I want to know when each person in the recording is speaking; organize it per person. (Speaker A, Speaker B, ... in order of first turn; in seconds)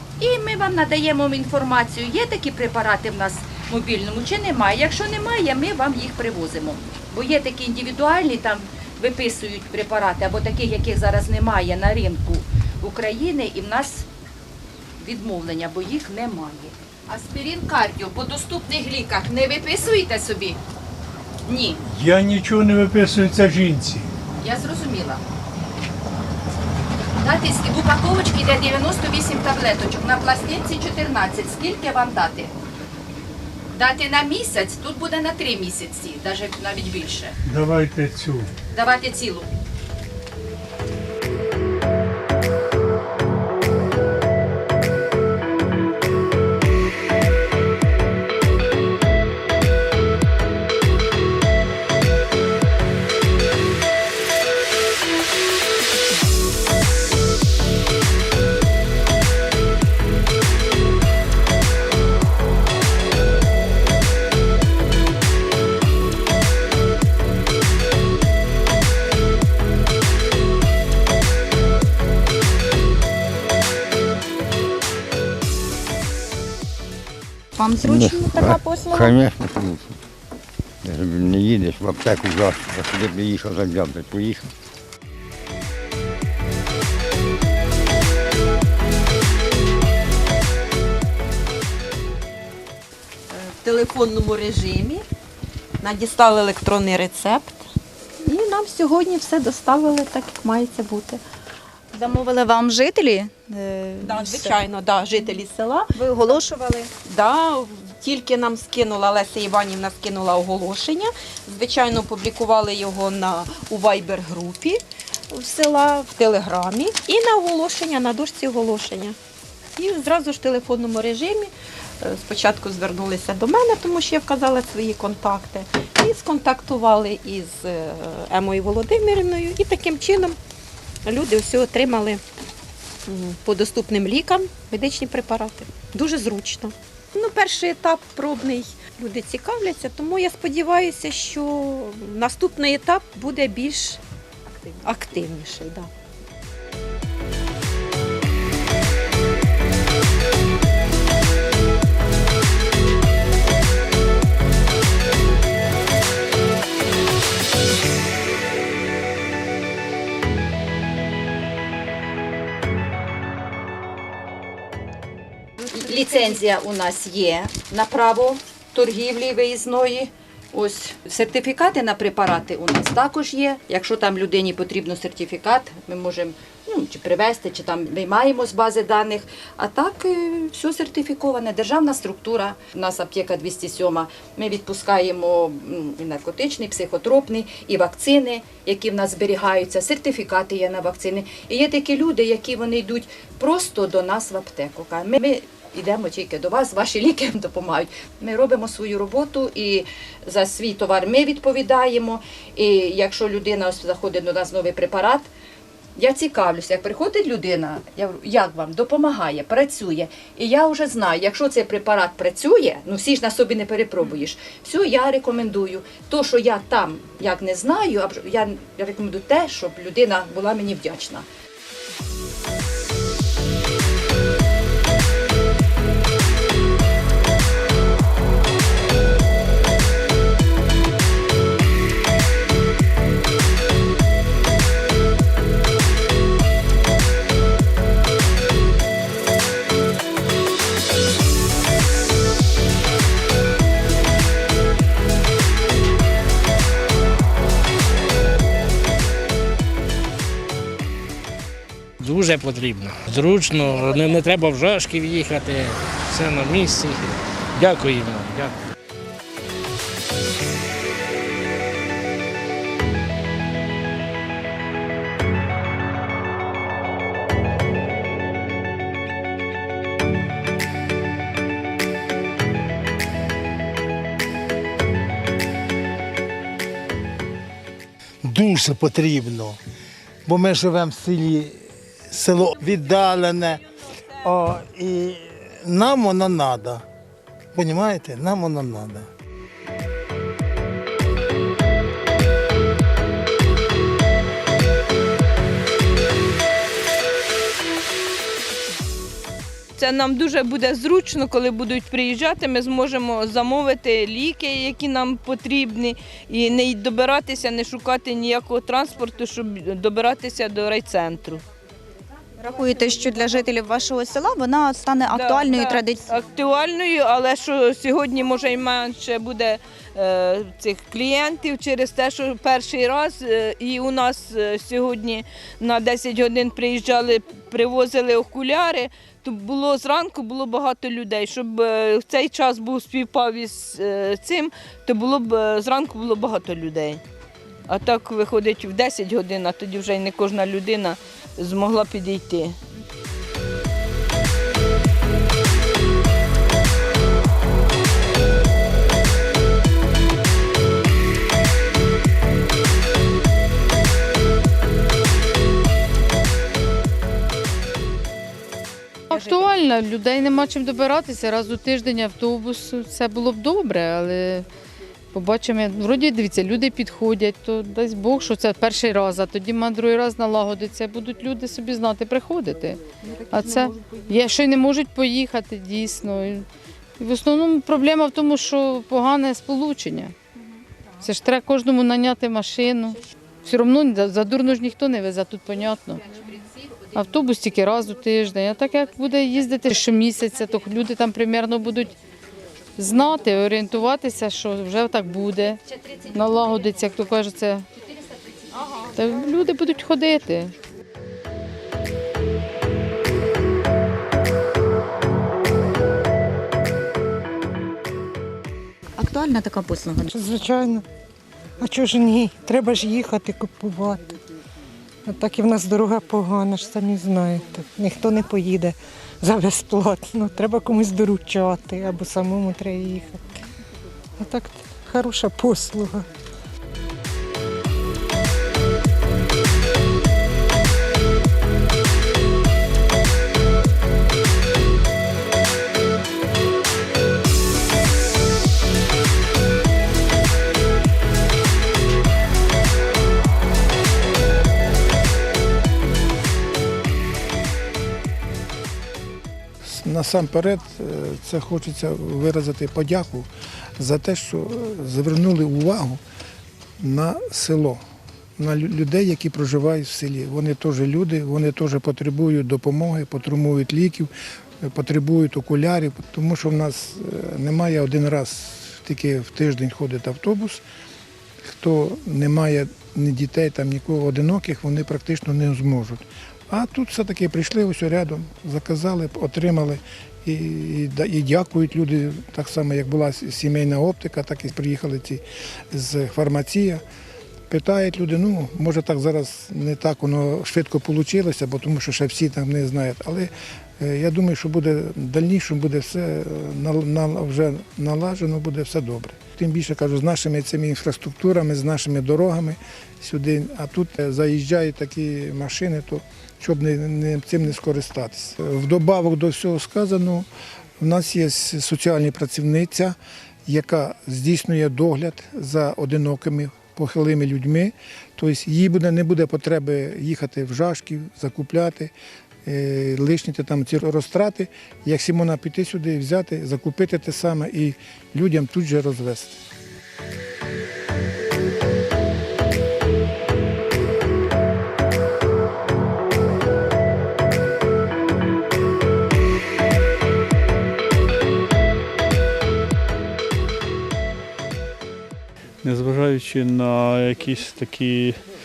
Speaker A: 0.2-14.1, 15.0-20.6, 21.4-21.8, 24.4-25.2, 27.2-32.5, 33.7-37.4, 38.7-39.5, 165.7-205.3, 206.0-221.3
Speaker B: 21.9-24.1, 37.5-38.5
Speaker C: 77.6-79.2, 101.9-104.5, 106.0-106.9, 312.4-316.0, 409.0-410.1
Speaker D: 77.8-79.9, 80.8-84.5
Speaker E: 93.3-95.0, 95.8-97.7, 98.2-101.2, 104.0-106.0, 107.0-119.2, 119.8-130.4, 131.0-132.2, 133.1-144.0, 144.8-145.9
Speaker F: 252.0-258.6
Speaker G: 278.2-279.6, 280.3-281.6, 282.1-283.6, 284.2-286.9, 287.5-289.1
Speaker H: 299.8-311.4, 315.1-337.0, 337.7-342.6
Speaker I: 359.1-364.5, 365.1-376.5, 377.0-380.2, 381.0-386.1, 386.9-391.9, 392.8-397.7, 398.8-400.5
Speaker J: 410.1-410.8, 411.6-414.1, 415.1-423.2, 424.2-426.1
Speaker K: 449.6-456.0, 456.8-457.8, 458.4-464.1, 464.6-470.6, 471.5-486.8, 487.5-510.3, 510.8-521.9, 522.5-529.4
Speaker L: 545.6-548.2